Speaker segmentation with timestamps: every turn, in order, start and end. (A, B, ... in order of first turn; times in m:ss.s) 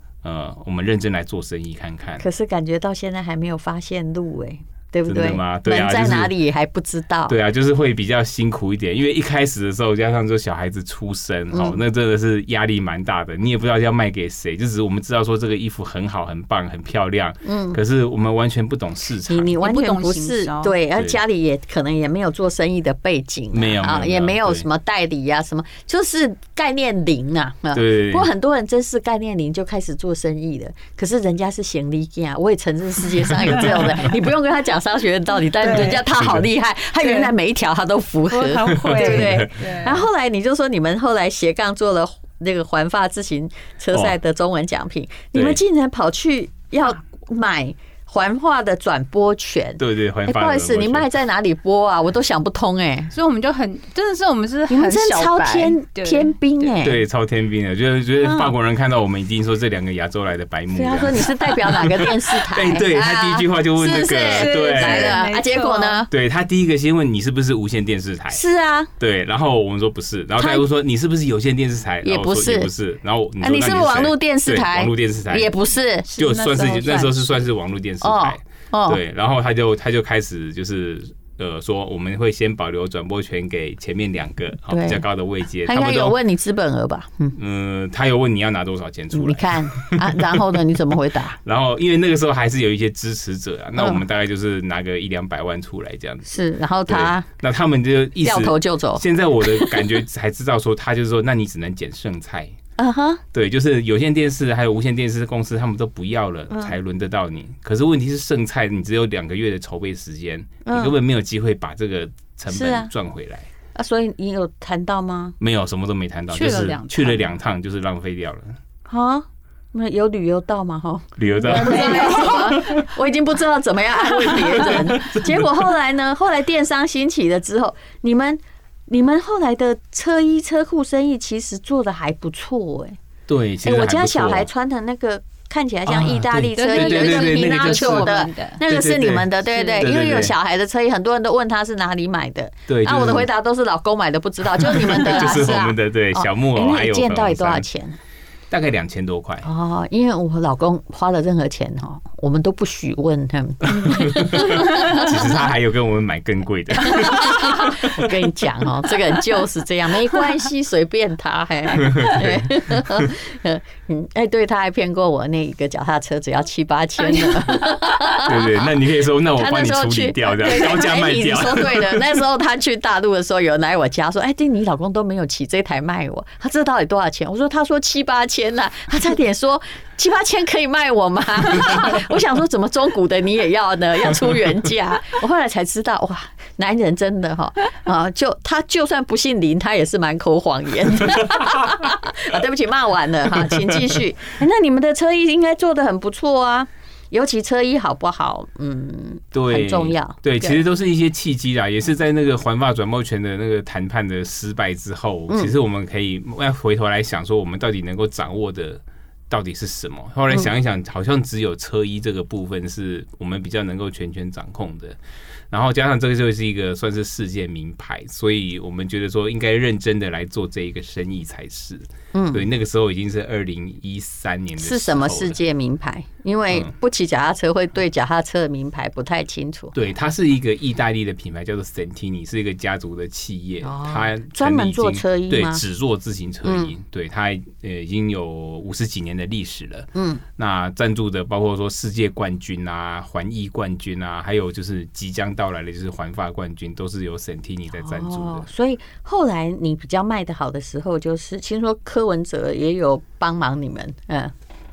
0:00.2-0:02.2 A
0:02.2-0:07.4 B
0:05.1-0:06.3 A
0:07.3-0:19.6 A
0:11.5-0:11.8 B
0:17.4-0:17.8 B
0:19.3-0:53.1 B
0:19.6-0:20.8 C
0:23.5-0:24.6 A
0:27.7-0:28.3 A
0:35.6-0:36.0 C
0:36.2-0:36.4 A
0:37.0-0:37.3 C
0:38.3-0:40.0 C
0:38.8-0:39.5 A
0:45.3-0:45.6 A
0:49.8-0:51.1 A
0:53.1-0:56.7 C
0:54.7-0:57.0 B
0:56.8-1:05.3 A
0:58.2-0:58.5 B
1:00.7-1:06.1 B
1:04.1-1:06.0 C
1:06.1-1:08.4 A
1:08.3-1:08.9 B
1:09.0-1:15.5 A
1:10.4-1:10.6 B
1:12.0-1:12.7 B
1:13.4-1:16.1 B
1:16.1-1:17.2 C
1:16.2-1:26.2 A
1:16.8-1:17.1 B
1:18.0-1:19.0 B
1:24.7-1:25.0 B
1:25.6-1:27.4 B
1:27.4-1:30.6 A
1:29.1-1:31.4 B
1:31.4-1:36.3 A
1:33.8-1:34.0 B
1:36.3-1:37.2 B
1:36.9-1:42.5 A
1:38.2-1:39.9 B
1:42.8-1:43.2 B
1:43.3-1:53.5 A
1:46.5-1:46.8 B
1:50.6-1:50.9 B
1:52.5-1:52.9 B
1:53.8-1:55.4 B
1:55.4-1:58.6 A
1:56.3-1:57.2 C
1:58.9-2:13.0 B
2:01.2-2:02.8 A
2:01.4-2:02.8 C
2:04.2-2:05.5 A
2:13.3-2:14.5 A
2:13.6-2:28.0 B
2:15.9-2:20.3 A
2:16.5-2:18.6 C
2:19.5-2:19.8 C
2:22.7-2:23.3 A
2:24.6-2:27.6 A
2:28.5-2:29.5 A
2:29.4-2:35.2 B
2:33.6-2:38.1 A
2:36.8-3:20.6 B
2:41.8-2:43.1 A
2:47.1-2:47.4 C
2:48.1-2:52.2 A
3:19.3-3:35.0 A
3:25.3-3:25.5 B
3:35.5-3:45.4 A
3:42.1-3:42.4 B
3:44.6-3:49.8 B
3:49.7-4:08.4 A
3:53.6-3:55.6 B
3:56.4-3:56.7 B
3:59.9-4:00.2 B
4:07.8-4:14.3 B